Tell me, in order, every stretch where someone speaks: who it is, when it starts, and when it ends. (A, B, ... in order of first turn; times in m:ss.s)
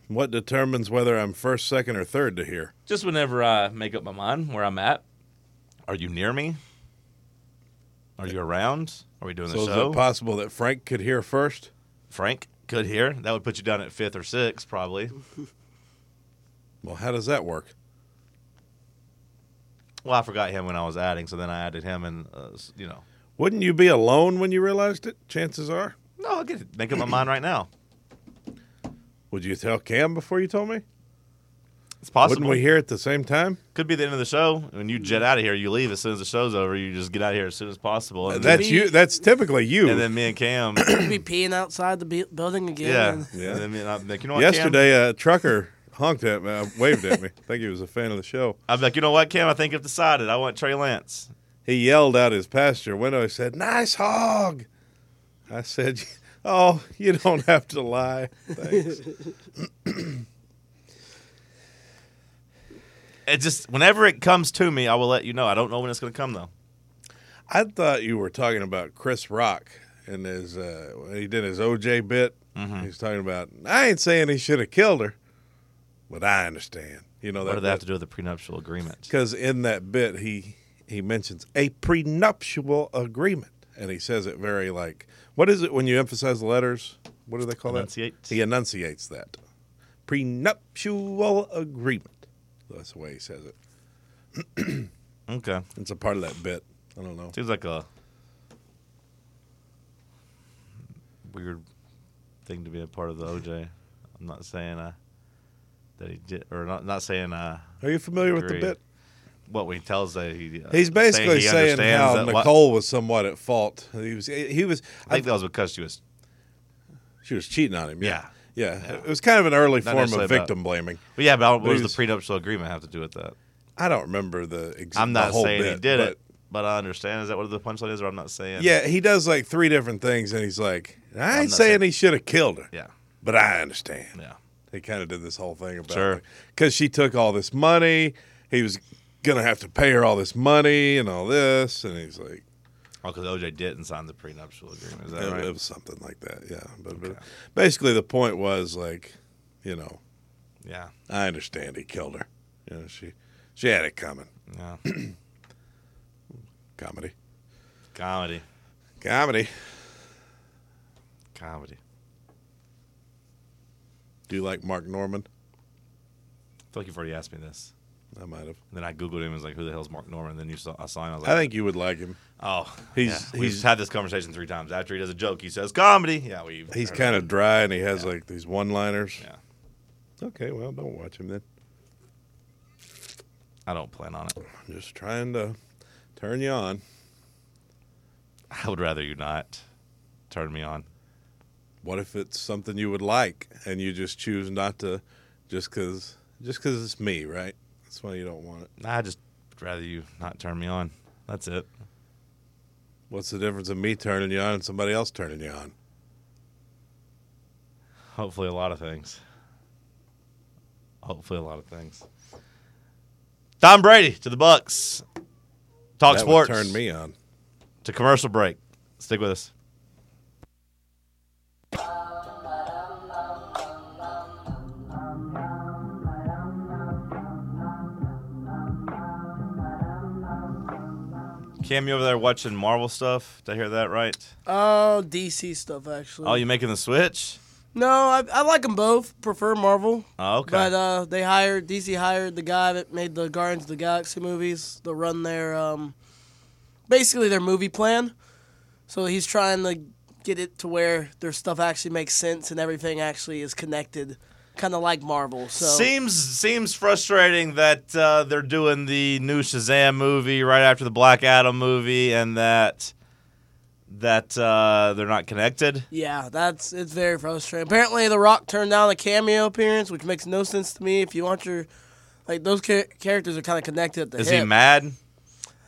0:00.1-0:02.7 A
0:02.9-0:05.0 B
0:05.9-0:06.6 B
0:08.2-0:10.0 B
0:09.5-0:11.7 A
0:12.1-0:15.2 B
0:16.8-0:17.7 A
0:20.0-0:23.0 B
0:23.4-0:26.0 A
0:26.2-0:27.7 B
0:29.3-0:30.8 A
0:32.0-0:32.6 B
0:32.2-0:33.6 A
0:33.8-0:38.7 B
0:38.3-0:40.1 A
0:38.4-0:39.0 C
0:39.8-0:40.9 B
0:40.8-0:43.3 C
0:42.8-0:44.8 B
0:43.3-0:43.6 A
0:44.3-0:48.6 A
0:48.7-0:51.3 B
0:51.7-0:54.7 A
0:55.5-0:59.0 A
0:59.6-1:00.2 A
1:03.3-1:06.5 B
1:07.5-1:15.2 A
1:12.6-1:12.9 B
1:16.1-1:17.8 A
1:17.4-1:19.1 B
1:19.1-1:29.4 A
1:27.7-1:28.4 B
1:30.1-1:33.6 A
1:34.4-1:34.9 A
1:35.3-1:35.7 B
1:35.8-1:37.4 A
1:37.3-1:37.9 B
1:41.2-1:41.6 B
1:42.5-1:45.0 B
1:46.0-1:48.8 B
1:47.8-1:48.8 A
1:49.5-1:52.5 B
1:50.7-1:55.3 A
1:55.1-1:56.0 B
1:57.2-2:01.0 A
1:58.0-1:58.3 B
1:59.8-2:00.5 B
2:01.2-2:03.4 B
2:01.6-2:02.0 A
2:03.8-2:06.2 A
2:05.0-2:08.7 B
2:08.6-2:12.7 A
2:11.3-2:11.8 B
2:13.2-2:14.2 A
2:14.7-2:22.4 A
2:15.9-2:16.2 B
2:23.0-2:25.5 B
2:25.2-2:30.0 A
2:26.9-2:27.2 B
2:30.6-2:30.9 B
2:31.1-2:34.3 A
2:34.5-2:34.8 B
2:34.8-2:35.2 A
2:36.8-2:37.1 A
2:37.9-2:38.4 B
2:39.0-2:39.5 A
2:41.4-2:41.8 B
2:44.3-2:45.3 A
2:46.7-2:47.7 B
2:48.2-2:48.6 A
2:48.7-2:51.5 B
2:51.2-2:52.2 A
2:52.4-2:57.3 B
2:52.9-2:53.6 A
2:56.7-2:59.2 A
3:00.2-3:01.4 A
3:03.7-3:04.4 B
3:04.6-3:05.6 A
3:06.2-3:06.8 A
3:08.5-3:09.6 B
3:10.3-3:10.9 B
3:11.8-3:18.7 A
3:18.8-3:21.7 B
3:23.1-3:25.7 A
3:28.2-3:29.2 B
3:31.0-3:32.0 B
3:33.6-3:35.0 B
3:36.0-3:36.8 B
3:36.1-3:37.2 A
3:37.8-3:39.5 B
3:51.6-3:54.3 B
3:54.5-3:56.4 C
3:56.2-3:57.4 B
3:57.7-4:05.9 C
4:00.2-4:00.7 B
4:06.9-4:08.1 C
4:08.9-4:15.9 C
4:15.6-4:22.9 B
4:23.9-4:25.9 B
4:25.9-4:31.7 C
4:32.3-4:34.5 C
4:34.2-4:35.0 B